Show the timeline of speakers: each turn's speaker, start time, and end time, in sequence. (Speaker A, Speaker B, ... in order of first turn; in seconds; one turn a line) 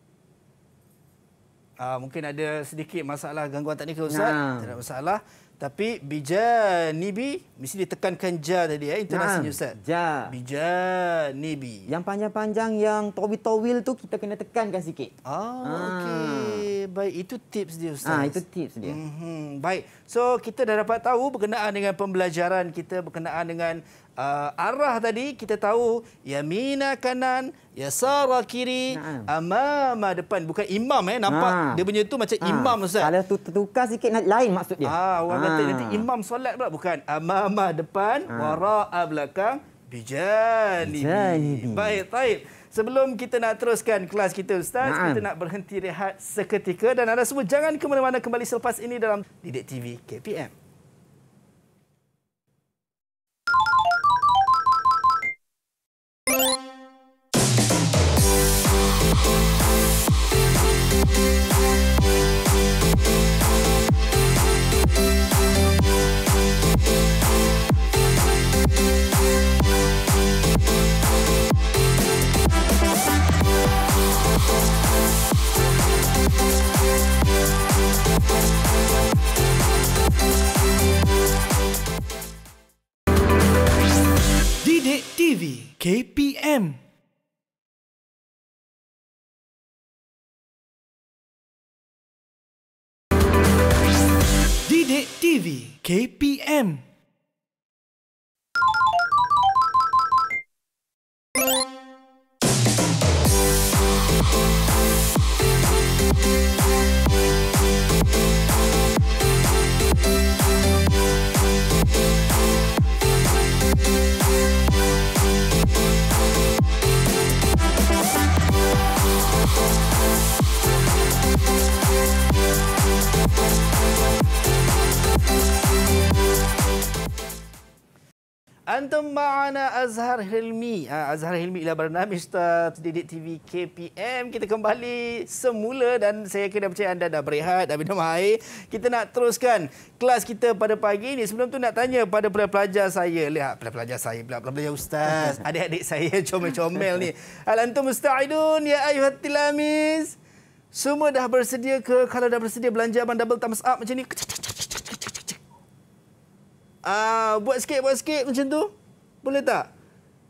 Speaker A: 1.8-11.9
Speaker B: 4.1-4.7
Speaker B: 9.1-10.3
Speaker B: 11.9-15.1
Speaker A: 15.2-33.1
Speaker B: 15.6-16.6
Speaker B: 18.1-19.0
Speaker B: 28.9-29.3
Speaker B: 31.3-31.8
Speaker B: 32.4-36.0
Speaker A: 34.9-50.5
Speaker B: 38.3-38.6
Speaker B: 40.8-42.0
Speaker B: 44.8-45.3
Speaker C: 84.6-86.8
Speaker C: 94.7-96.8
Speaker A: 128.7-150.2
Speaker A: 150.7-155.4
Speaker A: 156.8-158.7
Speaker A: 159.2-159.7